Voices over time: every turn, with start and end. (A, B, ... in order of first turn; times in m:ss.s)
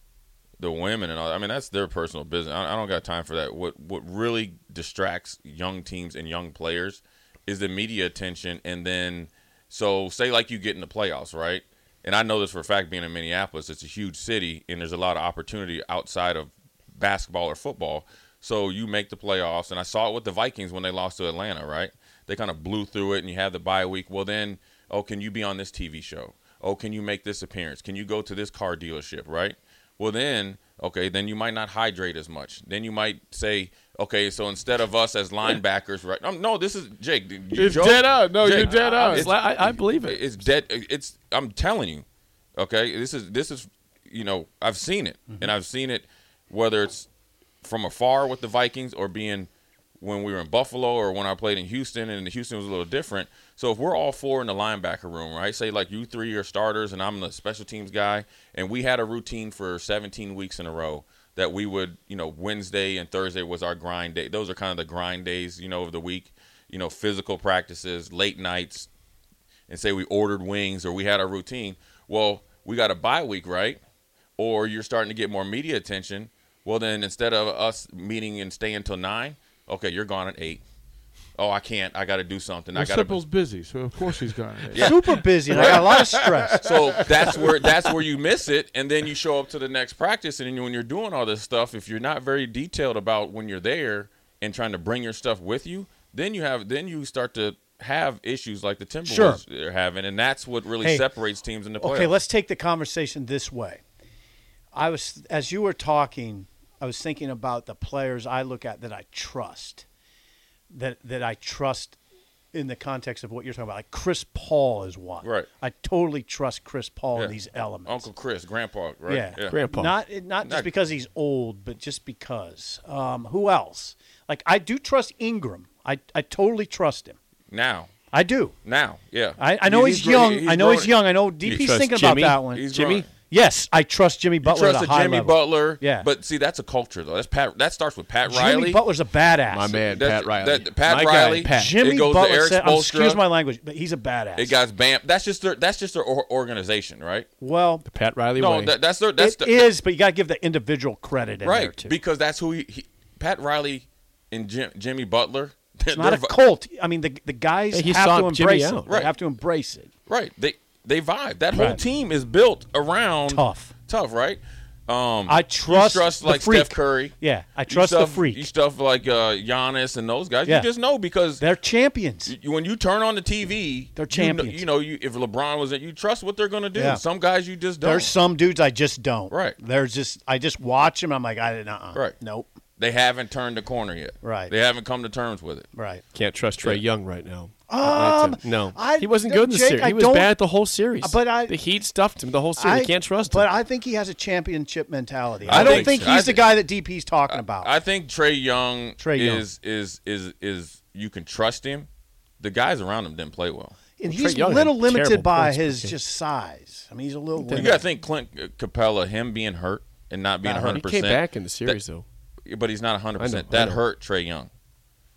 0:00.6-0:42.0 A
0:37.5-0:39.3 B
0:38.6-0:40.2 C
0:42.6-0:47.1 A
0:47.6-1:08.9 A
1:09.7-1:13.8 A
1:14.4-1:20.6 A
1:21.4-1:23.2 A
1:22.7-1:27.8 B
1:24.7-1:25.0 A
1:24.7-1:26.6 D
1:25.5-1:25.9 A
1:26.6-1:42.1 A
1:39.0-1:39.4 D
1:40.8-1:41.0 D
1:41.8-1:43.8 D
1:44.7-1:49.8 D
1:50.7-1:52.0 D
1:52.5-1:58.1 D
1:57.8-1:59.6 A
1:59.1-2:07.2 D
1:59.5-1:59.9 C
2:07.5-2:07.9 A
2:08.1-2:08.5 D
2:08.6-2:10.9 A
2:09.4-2:12.6 D
2:11.5-2:13.1 C
2:12.5-2:13.1 A
2:13.3-2:16.1 D
2:14.4-2:18.8 A
2:18.2-2:19.8 D
2:19.5-2:21.8 C
2:19.9-2:23.2 A
2:21.5-2:24.6 D
2:24.4-2:27.3 A
2:27.4-2:27.8 D
2:27.8-2:28.7 C
2:28.4-2:29.6 A
2:29.2-2:32.0 D
2:31.4-2:36.3 A
2:35.9-2:39.9 D
2:37.7-2:38.9 C
2:38.9-2:39.1 A
2:40.1-2:47.1 A
2:41.5-2:41.8 D
2:43.3-2:43.7 D
2:45.2-2:48.5 D
2:47.7-2:51.4 A
2:51.4-2:52.3 D
2:52.2-2:58.1 A
2:53.9-2:54.6 D
2:56.7-2:57.0 D
2:57.8-3:02.5 D
2:59.3-2:59.6 A
3:02.8-3:05.7 A
3:04.2-3:04.5 D
3:05.7-3:06.0 D
3:06.1-3:13.5 C
3:07.7-3:10.3 D
3:11.0-3:11.6 D
3:12.6-3:17.7 D
3:15.5-3:16.1 C
3:15.5-3:16.6 A
3:17.3-3:21.9 A
3:19.0-3:19.4 D
3:22.4-3:23.8 A
3:24.0-3:27.8 D
3:24.0-3:25.9 C
3:27.4-3:27.8 C
3:27.6-3:31.8 A
3:30.4-3:32.0 C
3:32.4-3:34.5 A
3:33.2-3:33.8 C